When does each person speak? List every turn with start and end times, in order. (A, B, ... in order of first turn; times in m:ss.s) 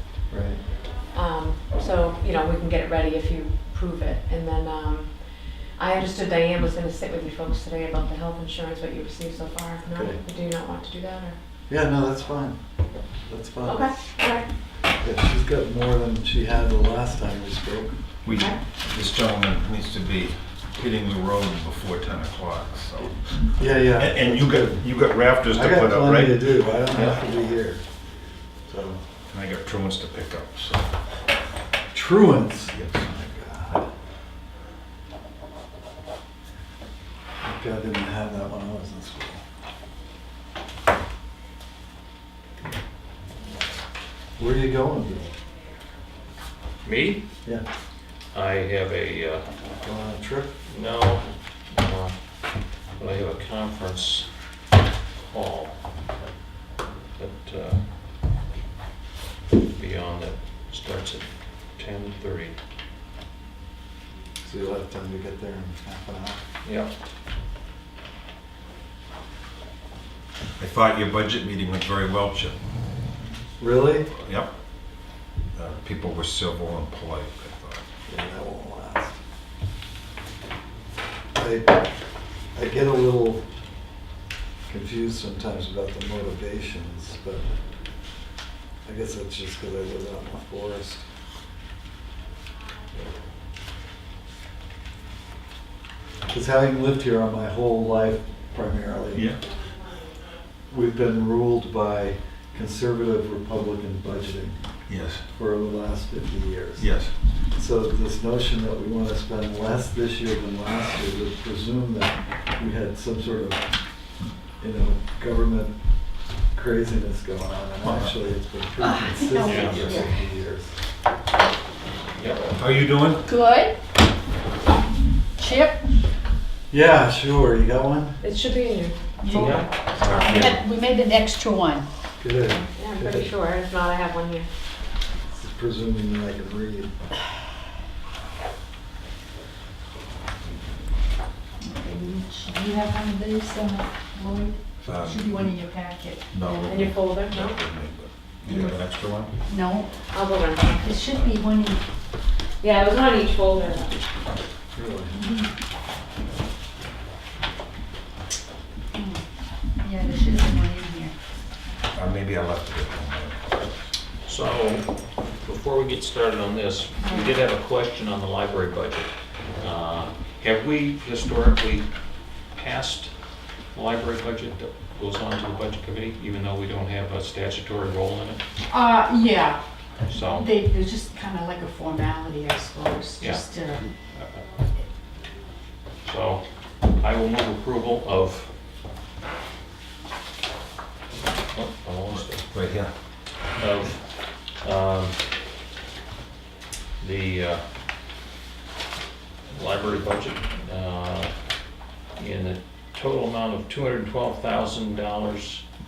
0:00.3-0:00.6 A
0:01.1-0:11.4 B
0:09.9-0:10.2 A
0:11.7-0:12.6 A
0:13.3-0:13.9 A
0:13.6-0:14.5 B
0:15.0-0:17.9 A
0:18.2-0:26.6 C
0:23.6-0:24.8 A
0:25.5-0:27.8 A
0:28.7-0:29.0 A
0:29.3-0:30.9 C
0:31.9-0:33.9 A
0:32.7-0:33.1 C
0:37.4-0:39.4 A
0:44.4-0:45.3 A
0:46.8-0:47.2 D
0:48.3-0:49.5 D
0:49.8-0:50.5 A
0:50.7-0:52.1 D
0:53.0-0:54.3 D
0:55.3-0:55.8 D
0:57.2-0:57.8 D
0:59.7-1:02.6 D
1:04.4-1:06.4 A
1:06.6-1:06.9 D
1:10.6-1:12.6 C
1:13.6-1:14.1 A
1:14.1-1:14.5 C
1:15.5-1:17.8 C
1:18.1-1:19.2 A
1:21.3-1:21.9 A
1:22.5-1:23.4 A
1:24.7-1:27.4 A
1:28.8-1:31.0 A
1:36.3-1:39.3 A
1:39.1-1:39.4 C
1:40.7-1:44.6 A
1:44.9-1:45.2 C
1:45.2-1:46.9 A
1:46.8-1:47.1 C
1:47.5-1:53.6 A
1:54.6-1:55.7 A
1:56.5-2:00.7 A
1:57.8-1:58.1 C
1:58.8-2:00.2 E
1:59.4-1:59.9 D
2:02.1-2:02.4 D
2:02.5-2:03.2 C
2:03.2-2:03.7 E
2:05.4-2:05.8 E
2:06.7-2:08.2 A
2:08.2-2:10.5 B
2:09.2-2:09.7 E
2:09.3-2:10.4 D
2:10.0-2:10.6 C
2:10.2-2:11.9 E
2:12.2-2:13.3 A
2:12.6-2:14.5 B
2:15.3-2:16.9 A
2:21.6-2:26.3 E
2:24.8-2:25.4 C
2:26.3-2:29.3 C
2:26.4-2:27.6 B
2:29.5-2:30.0 E
2:30.0-2:31.0 B
2:30.8-2:31.8 E
2:32.6-2:34.0 B
2:34.7-2:35.3 A
2:35.2-2:35.4 E
2:38.9-2:39.2 E
2:39.8-2:41.1 E
2:41.9-2:43.9 C
2:44.2-2:44.9 D
2:45.4-2:51.9 D
2:47.0-2:47.3 E
2:52.5-2:53.1 D
2:53.7-2:58.4 D
2:58.7-2:59.6 E
3:00.1-3:00.5 D
3:00.2-3:03.9 E
3:03.2-3:04.5 D
3:06.0-3:06.4 D
3:07.0-3:08.5 D
3:11.5-3:12.4 D
3:12.5-3:12.9 C
3:13.6-3:15.2 D
3:17.0-3:17.6 D
3:19.5-3:21.3 D
3:22.2-3:25.6 D